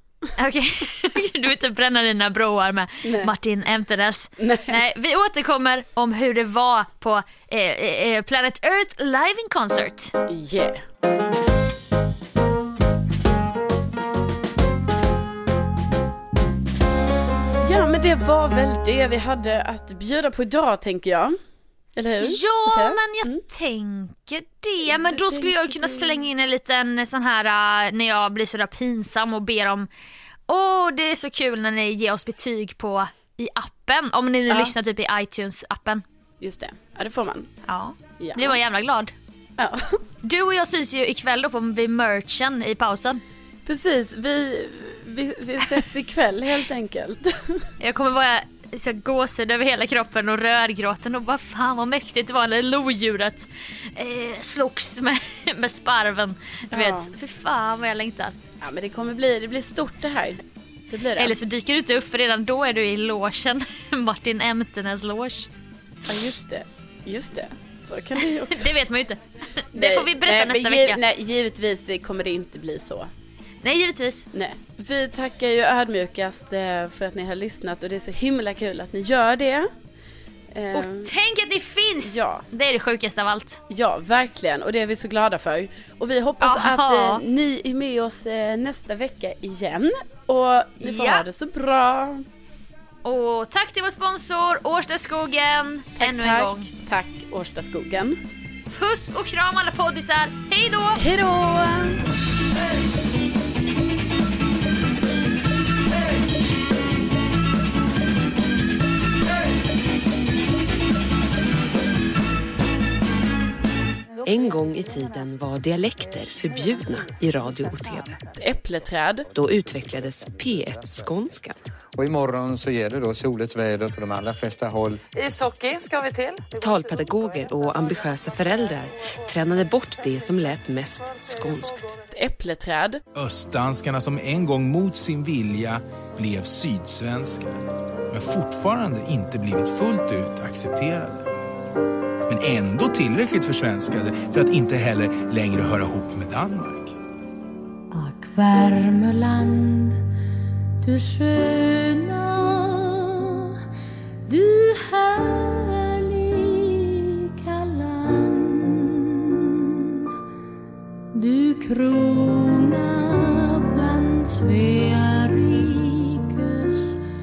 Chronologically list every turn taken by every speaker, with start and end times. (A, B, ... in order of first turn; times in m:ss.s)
0:00.4-0:10.1 A
0:03.0-0:03.3 B
0:04.4-0:04.8 B
0:10.3-0:10.8 B
0:17.6-0:21.4 B
0:22.0-0:23.4 B
0:22.2-0:29.9 A
0:24.9-0:26.2 B
0:30.5-0:36.0 A
0:36.4-0:37.5 B
0:37.7-0:39.1 A
0:38.2-0:38.6 B
0:39.6-0:40.0 B
0:40.2-0:43.2 A
0:43.7-0:47.7 B
0:47.8-0:58.4 A
0:56.7-0:57.2 B
0:58.6-1:01.4 B
1:01.2-1:05.5 A
1:06.1-1:08.7 B
1:08.5-1:09.2 A
1:09.7-1:11.0 A
1:09.7-1:13.1 B
1:13.6-1:14.3 A
1:14.3-1:19.7 B
1:20.5-1:21.1 B
1:20.7-1:23.6 A
1:22.0-1:22.5 B
1:23.7-1:32.2 B
1:26.4-1:27.2 A
1:30.8-1:31.3 A
1:33.0-1:36.7 A
1:36.0-1:38.2 B
1:38.7-1:41.0 A
1:41.0-1:42.0 B
1:54.2-1:58.2 C
1:58.4-1:59.3 B
1:59.3-2:01.6 C
2:02.0-2:05.0 D
2:05.2-2:11.9 C
2:12.1-2:13.0 B
2:13.2-2:21.3 E
2:22.3-2:27.0 E
2:27.9-2:30.0 F
2:30.8-2:33.6 F
2:34.3-2:40.1 F
2:41.1-2:47.0 F